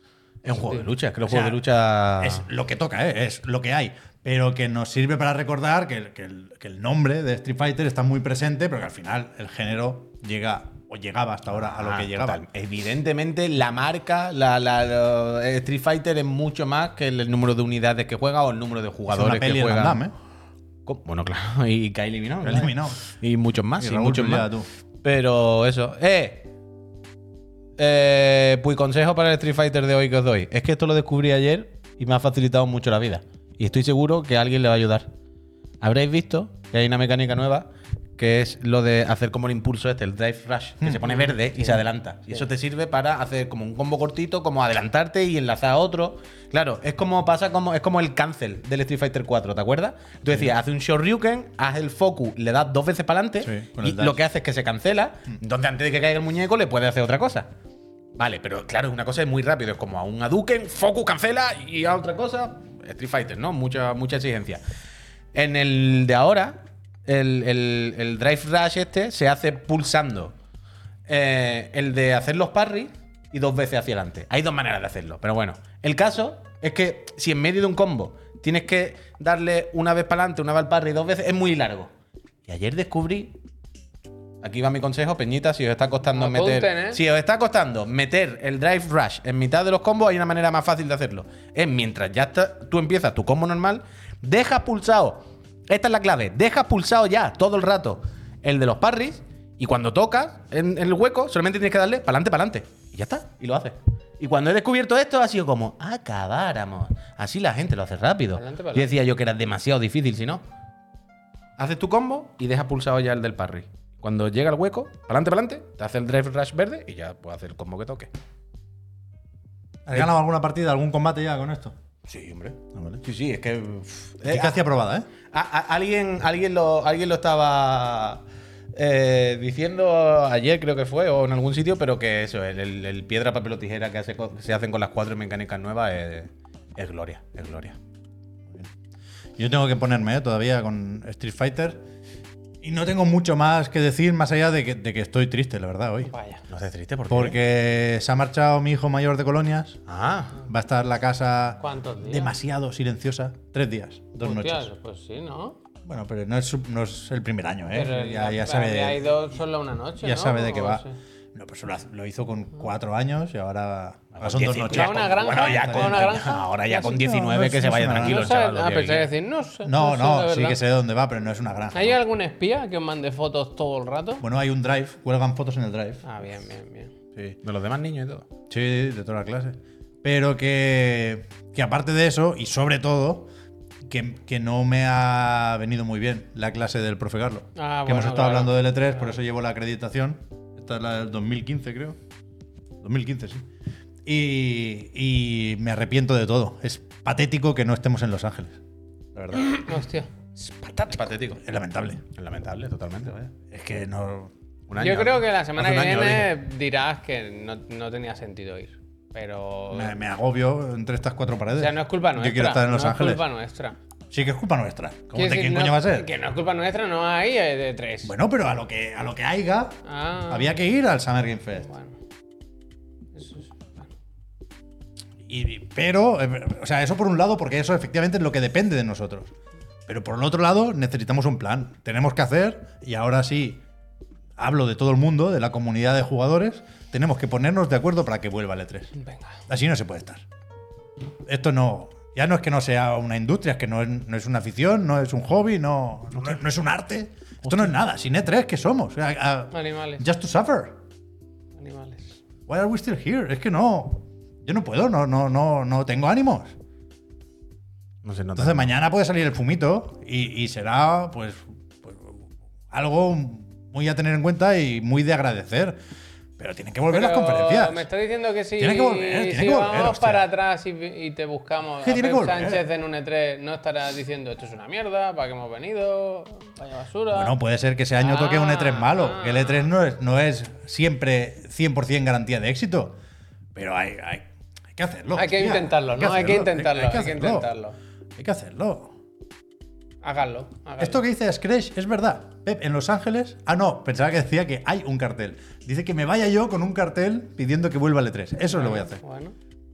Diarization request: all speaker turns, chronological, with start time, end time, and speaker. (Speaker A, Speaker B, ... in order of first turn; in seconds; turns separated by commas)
Speaker A: 0.4-2.5, Speaker B: 1.2-1.6, Speaker B: 2.2-12.4, Speaker A: 11.5-20.0, Speaker B: 19.1-20.1, Speaker A: 20.9-24.5, Speaker B: 22.4-23.0, Speaker B: 23.8-24.7, Speaker A: 25.0-26.5, Speaker A: 27.8-35.1, Speaker A: 35.8-57.5, Speaker B: 40.8-41.1, Speaker C: 41.0-41.4, Speaker B: 53.4-54.2, Speaker A: 58.2-64.6, Speaker A: 65.3-70.3, Speaker A: 71.1-81.9, Speaker A: 82.5-83.3, Speaker A: 84.4-110.4, Speaker C: 86.1-87.0, Speaker C: 108.3-108.9, Speaker A: 111.6-118.1, Speaker B: 119.9-121.8, Speaker A: 122.1-124.6, Speaker B: 122.7-123.0, Speaker B: 124.2-125.1, Speaker A: 125.3-128.2, Speaker A: 128.7-137.8, Speaker B: 139.4-141.8, Speaker B: 142.6-146.1, Speaker C: 146.1-146.4, Speaker A: 146.5-147.4, Speaker B: 147.1-149.8, Speaker A: 149.9-150.4, Speaker B: 150.4-154.7, Speaker C: 151.6-152.3, Speaker C: 154.2-155.6, Speaker B: 155.8-159.0, Speaker C: 157.7-160.9, Speaker B: 160.0-168.3, Speaker A: 164.2-169.1, Speaker C: 164.7-167.0, Speaker C: 168.0-170.6, Speaker B: 169.7-172.0, Speaker C: 171.7-174.2, Speaker B: 174.2-176.0, Speaker C: 176.0-176.9, Speaker A: 177.2-178.3, Speaker B: 178.5-183.3, Speaker B: 183.9-192.0, Speaker C: 187.6-188.8, Speaker B: 192.8-193.4, Speaker B: 194.1-198.6, Speaker B: 199.2-199.6, Speaker C: 199.4-200.1, Speaker A: 200.6-201.4, Speaker B: 201.4-202.1, Speaker A: 202.2-203.3, Speaker B: 203.5-204.3, Speaker A: 204.7-206.3, Speaker C: 204.8-210.0, Speaker B: 209.7-213.2, Speaker C: 211.6-213.8, Speaker B: 214.1-216.1, Speaker C: 215.2-218.1, Speaker B: 218.0-221.7, Speaker C: 219.9-220.6, Speaker C: 221.6-221.9, Speaker C: 223.2-223.9, Speaker B: 225.3-229.3, Speaker B: 229.9-233.6, Speaker B: 234.4-238.9, Speaker C: 239.0-239.3, Speaker B: 239.5-240.2, Speaker B: 241.2-250.8, Speaker C: 249.5-250.0, Speaker C: 251.6-252.2, Speaker B: 252.5-256.6, Speaker A: 258.0-258.7, Speaker B: 258.4-262.2, Speaker B: 262.7-265.8, Speaker B: 266.4-267.8, Speaker C: 266.9-277.3, Speaker B: 268.6-270.3, Speaker B: 271.8-272.6, Speaker B: 277.1-283.0, Speaker C: 278.0-279.7, Speaker B: 283.6-287.5, Speaker C: 285.1-287.8, Speaker B: 288.2-288.9, Speaker C: 290.0-291.0, Speaker B: 290.8-299.0, Speaker C: 298.5-299.4